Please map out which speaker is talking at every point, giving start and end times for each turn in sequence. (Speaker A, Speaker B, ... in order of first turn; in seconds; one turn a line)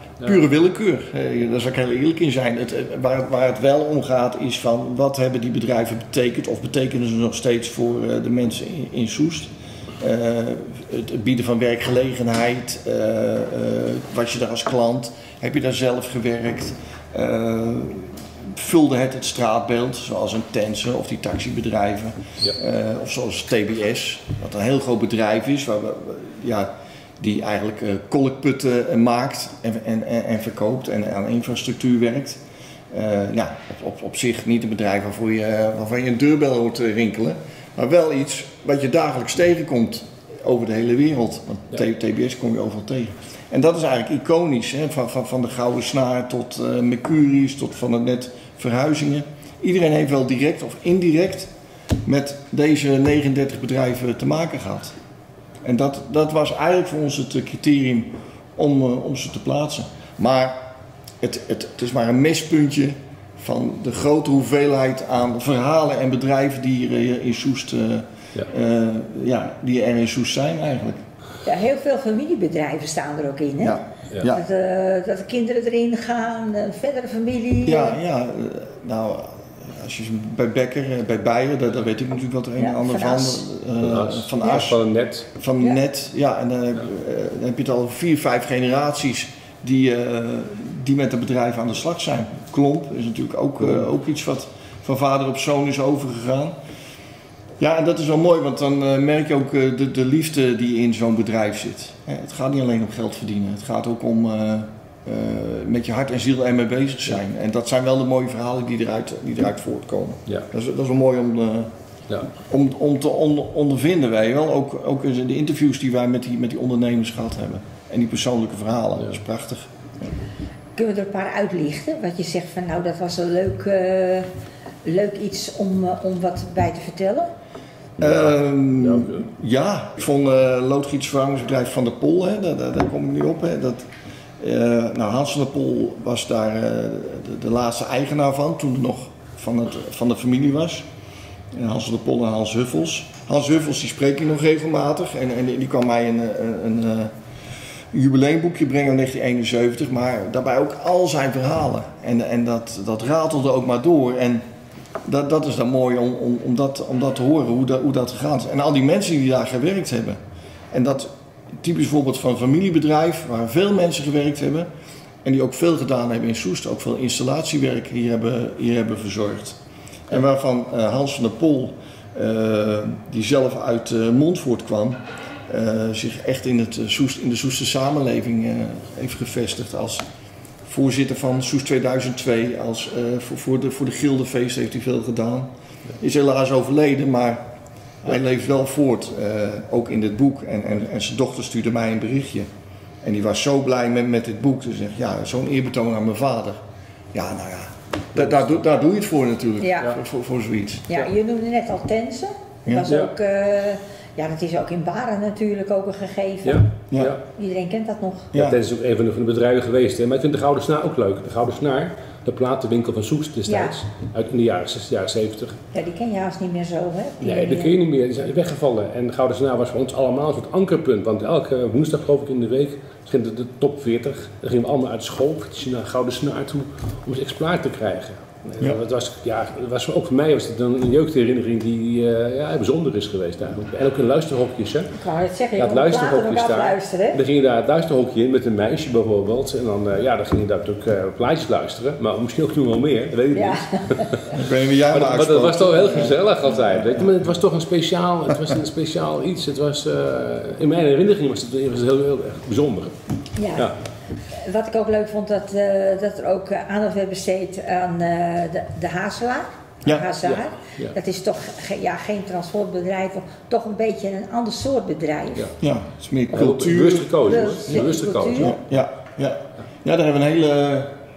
Speaker A: 0.2-32.4
Speaker A: 32.9-51.5
Speaker A: 52.0-54.9
Speaker A: 55.6-60.6
Speaker A: 61.2-71.0
Speaker B: 71.4-78.0
Speaker A: 73.6-74.4
Speaker A: 77.7-84.8
Speaker B: 82.6-83.5
Speaker C: 83.8-85.3
Speaker A: 85.4-96.6
Speaker A: 97.6-111.7
Speaker A: 112.4-120.1
Speaker B: 120.8-124.3
Speaker B: 124.8-127.3
Speaker C: 128.0-129.3
Speaker A: 128.0-133.9
Speaker A: 134.4-140.8
Speaker A: 141.5-147.1
Speaker A: 147.9-154.4
Speaker A: 155.1-160.2
Speaker A: 160.7-164.7
Speaker A: 165.2-180.0
Speaker A: 180.7-187.4
Speaker A: 188.0-192.5
Speaker A: 193.0-196.6
Speaker A: 197.1-201.1
Speaker C: 198.2-198.5
Speaker B: 199.6-199.9
Speaker B: 200.9-206.7
Speaker C: 202.9-203.1
Speaker C: 206.4-207.2
Speaker A: 206.9-207.2
Speaker B: 207.3-208.3
Speaker C: 208.3-215.6
Speaker B: 213.5-213.8
Speaker B: 215.7-217.8
Speaker C: 217.2-234.9
Speaker B: 234.9-237.2
Speaker C: 235.6-252.9
Speaker B: 243.3-244.2
Speaker A: 244.3-247.1
Speaker B: 253.4-253.7
Speaker B: 254.4-265.5
Speaker C: 260.2-260.9
Speaker A: 265.6-270.9
Speaker C: 266.3-268.5
Speaker B: 267.2-268.6